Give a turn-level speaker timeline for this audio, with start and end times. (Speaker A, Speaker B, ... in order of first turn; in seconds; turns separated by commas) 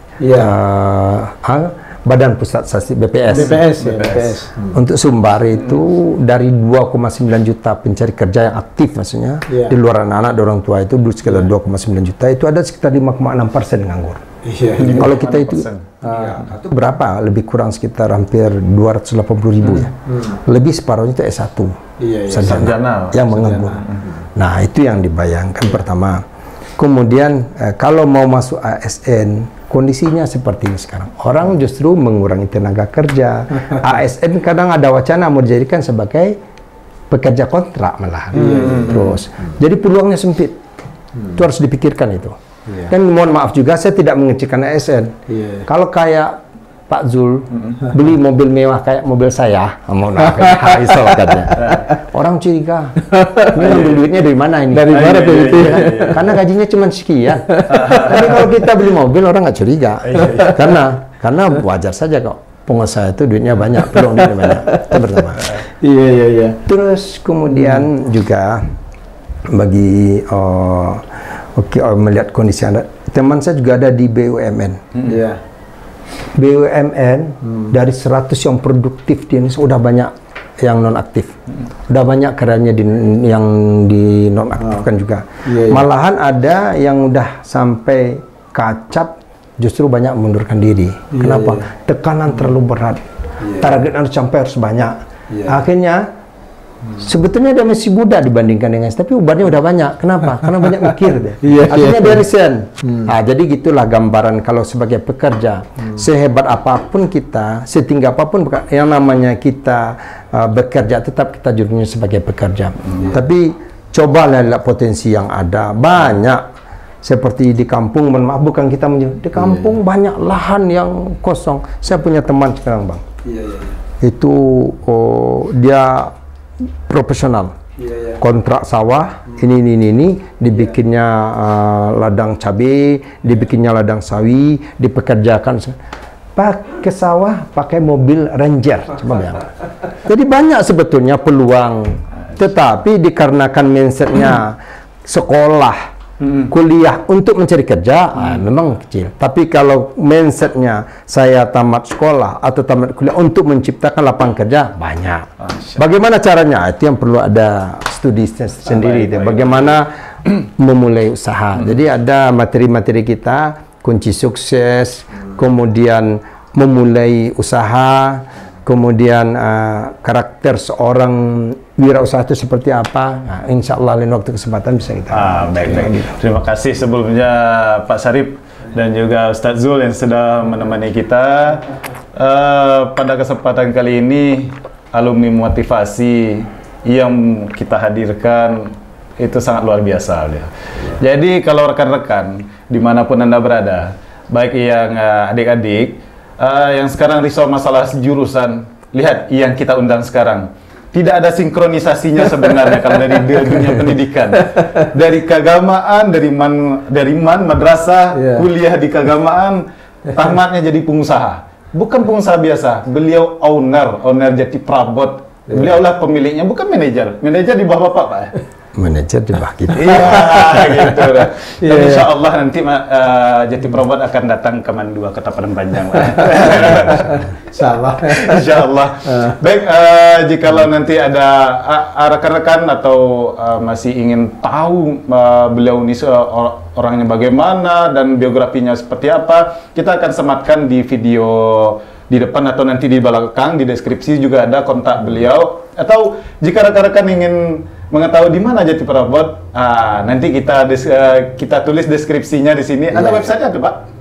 Speaker A: 0.2-0.5, Speaker B: 0.3-3.6, Speaker A: 3.3-4.8, Speaker C: 3.9-4.2, Speaker B: 4.7-14.2, Speaker A: 9.5-9.8, Speaker A: 14.4-15.2, Speaker C: 14.8-15.9, Speaker B: 14.8-23.8, Speaker A: 16.1-16.4, Speaker A: 20.1-20.4, Speaker A: 22.0-22.8, Speaker C: 22.4-24.0, Speaker A: 23.4-24.2, Speaker B: 24.4-26.2, Speaker B: 26.8-36.4, Speaker B: 37.1-40.6, Speaker A: 38.4-39.2, Speaker B: 41.4-42.4, Speaker B: 42.9-45.1, Speaker A: 45.3-45.7, Speaker B: 45.7-65.5, Speaker C: 47.5-47.8, Speaker A: 50.4-51.3, Speaker A: 53.0-53.9, Speaker C: 53.6-54.0, Speaker A: 54.7-56.2, Speaker C: 54.9-56.3, Speaker A: 57.5-58.3, Speaker C: 57.7-58.4, Speaker C: 60.1-60.6, Speaker A: 60.2-60.5, Speaker A: 64.0-66.6, Speaker B: 66.7-68.7, Speaker B: 69.5-74.9, Speaker A: 75.0-75.4, Speaker B: 76.4-81.3, Speaker A: 77.4-77.7, Speaker B: 81.9-93.0, Speaker A: 84.6-84.9, Speaker A: 85.5-85.9, Speaker A: 91.1-91.7, Speaker A: 93.4-93.7, Speaker B: 93.6-96.1, Speaker A: 95.3-95.6, Speaker B: 97.0-116.5, Speaker A: 101.4-102.2, Speaker A: 102.8-103.1, Speaker B: 117.0-123.0, Speaker A: 119.4-119.7, Speaker A: 123.2-123.8, Speaker B: 124.0-126.1, Speaker B: 126.9-127.5, Speaker A: 127.8-128.2, Speaker B: 128.2-135.8, Speaker B: 136.3-145.8, Speaker C: 146.2-146.5, Speaker B: 146.5-176.2, Speaker C: 155.4-155.8, Speaker C: 158.7-159.7, Speaker C: 175.1-218.3, Speaker A: 208.1-208.5, Speaker B: 218.8-220.7, Speaker C: 219.7-227.3, Speaker A: 219.9-222.1, Speaker A: 226.2-229.4, Speaker C: 227.9-253.8, Speaker A: 252.9-253.3